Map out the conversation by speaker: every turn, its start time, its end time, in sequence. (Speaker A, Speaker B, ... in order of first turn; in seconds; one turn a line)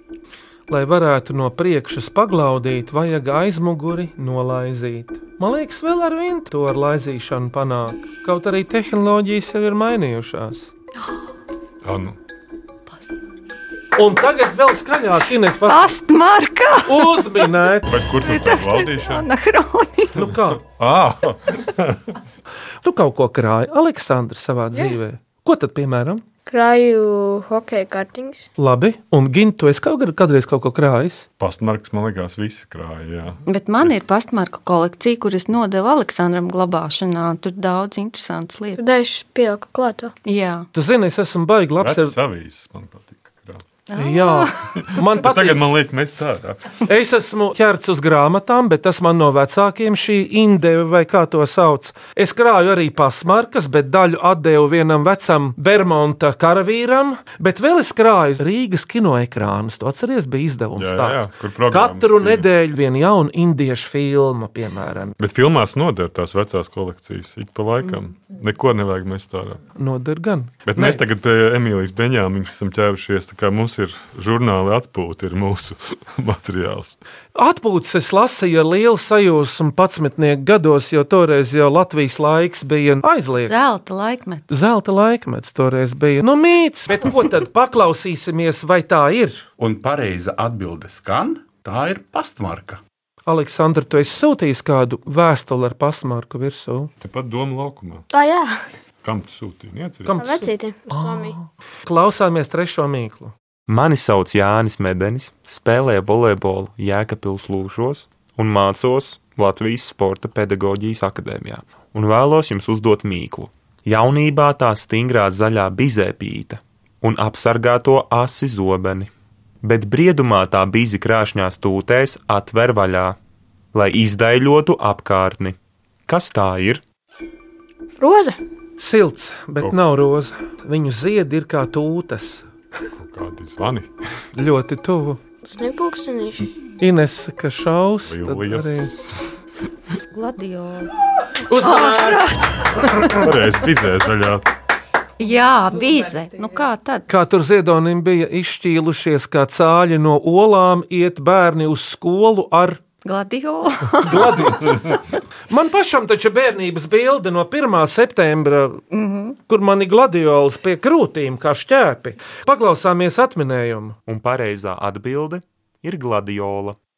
Speaker A: 0.7-10.7
Speaker B: 11.8-12.2
Speaker A: 13.9-15.9
Speaker C: 15.6-17.4
Speaker A: 16.9-18.1
Speaker B: 17.9-19.3
Speaker C: 18.1-20.3
Speaker A: 20.1-20.6
Speaker B: 20.6-22.0
Speaker A: 22.8-26.2
Speaker D: 26.5-28.5
Speaker A: 28.6-31.2
Speaker B: 31.4-33.4
Speaker C: 33.5-38.8
Speaker D: 38.8-40.1
Speaker C: 40.2-40.7
Speaker A: 40.7-42.1
Speaker B: 41.8-43.6
Speaker C: 43.9-44.7
Speaker A: 44.0-45.6
Speaker B: 45.1-46.8
Speaker A: 46.9-65.2
Speaker B: 60.8-62.5
Speaker B: 65.2-69.6
Speaker A: 69.7-71.0
Speaker B: 70.7-77.0
Speaker A: 77.3-83.7
Speaker C: 83.4-84.5
Speaker A: 84.5-89.4
Speaker E: 89.6-92.8
Speaker A: 93.2-96.9
Speaker B: 97.0-98.0
Speaker D: 98.1-98.6
Speaker B: 99.0-100.2
Speaker A: 100.0-103.3
Speaker D: 100.2-101.3
Speaker F: 103.7-119.1
Speaker F: 119.6-123.2
Speaker F: 123.7-125.5
Speaker F: 126.1-126.8
Speaker D: 128.0-128.4
Speaker A: 128.8-132.4
Speaker B: 132.9-133.9
Speaker A: 134.3-135.2
Speaker D: 135.4-136.5
Speaker A: 136.8-138.9
Speaker B: 138.0-139.1
Speaker C: 140.1-140.9
Speaker A: 141.5-142.2
Speaker C: 141.5-143.2
Speaker B: 143.1-144.5
Speaker C: 145.2-147.1
Speaker A: 147.1-152.8
Speaker C: 153.0-154.8
Speaker A: 154.0-154.8
Speaker A: 155.5-158.8
Speaker C: 158.9-159.3
Speaker A: 159.5-164.0
Speaker F: 164.1-166.8